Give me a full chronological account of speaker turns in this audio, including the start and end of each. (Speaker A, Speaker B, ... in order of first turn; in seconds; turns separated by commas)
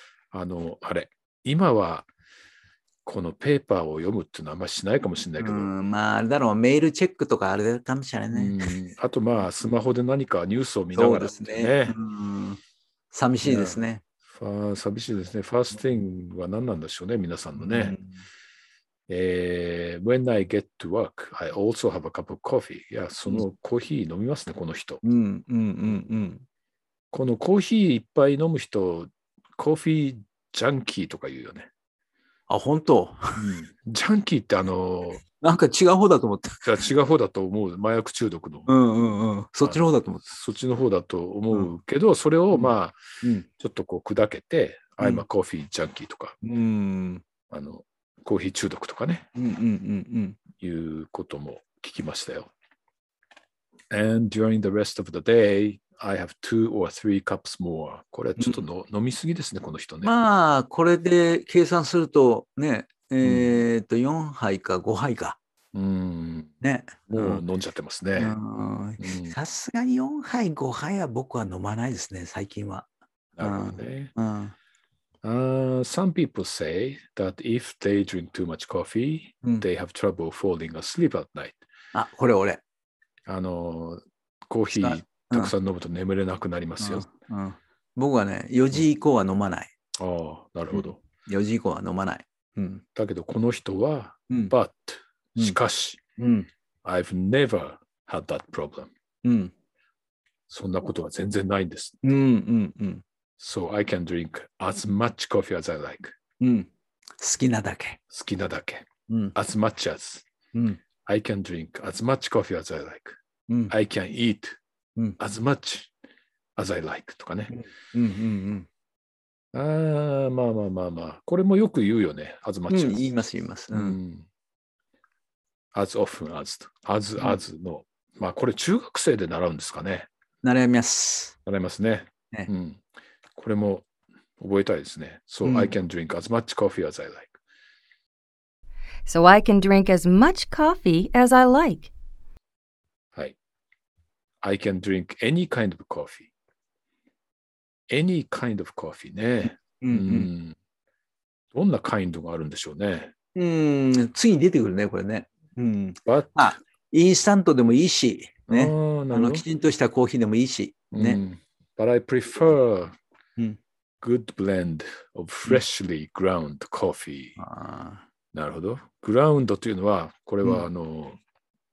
Speaker A: 0.3-2.1, Speaker A: 3.0-5.7, Speaker B: 5.4-8.6, Speaker A: 8.3-12.0, Speaker B: 10.9-12.6, Speaker B: 13.1-14.0, Speaker A: 13.4-13.8, Speaker A: 14.3-18.0, Speaker B: 17.6-18.0, Speaker A: 19.1-25.0, Speaker B: 25.0-26.4, Speaker A: 27.1-31.7, Speaker B: 32.5-33.4, Speaker A: 33.4-35.2, Speaker B: 35.3-36.7, Speaker A: 36.6-38.7, Speaker B: 38.7-40.2, Speaker A: 39.6-43.0, Speaker B: 42.5-43.5, Speaker A: 43.5-46.4, Speaker B: 45.0-45.2, Speaker B: 46.4-47.2, Speaker A: 47.5-49.3, Speaker B: 49.3-50.4, Speaker A: 50.6-52.5, Speaker A: 53.9-60.1, Speaker B: 58.4-58.6, Speaker B: 60.0-65.4, Speaker A: 63.2-63.6, Speaker A: 65.7-66.5, Speaker B: 66.6-67.4, Speaker A: 67.1-68.4, Speaker B: 68.2-72.9, Speaker A: 69.0-69.3, Speaker A: 73.3-74.1, Speaker B: 73.4-74.5, Speaker A: 75.2-81.6, Speaker B: 81.9-82.6, Speaker A: 83.3-87.1, Speaker B: 84.7-85.5, Speaker B: 86.8-89.7, Speaker A: 90.0-91.0, Speaker B: 90.7-92.8, Speaker A: 92.9-96.0, Speaker B: 96.2-96.5, Speaker A: 96.8-98.9, Speaker B: 99.2-99.5, Speaker A: 100.5-102.0, Speaker B: 102.0-103.0, Speaker A: 103.4-106.2, Speaker B: 106.4-108.0, Speaker A: 108.1-110.2, Speaker B: 109.1-109.3, Speaker B: 110.5-110.8, Speaker A: 111.0-114.6, Speaker B: 113.5-113.7, Speaker A: 115.2-115.9, Speaker A: 116.5-117.5, Speaker B: 117.5-118.7, Speaker A: 119.5-123.0, Speaker B: 122.7-124.0, Speaker A: 123.7-124.3, Speaker A: 125.7-130.1, Speaker B: 130.4-131.3, Speaker A: 131.4-132.8, Speaker A: 133.3-133.8, Speaker A: 134.4-137.3, Speaker B: 135.4-135.7, Speaker C: 139.1-141.9, Speaker A: 144.4-146.3, Speaker A: 147.9-150.6, Speaker B: 149.8-150.3, Speaker A: 151.5-153.1, Speaker B: 153.3-161.2, Speaker A: 156.0-156.6, Speaker A: 158.5-159.4, Speaker A: 160.9-163.0, Speaker A: 164.0-167.4, Speaker B: 167.4-168.0, Speaker A: 168.3-171.2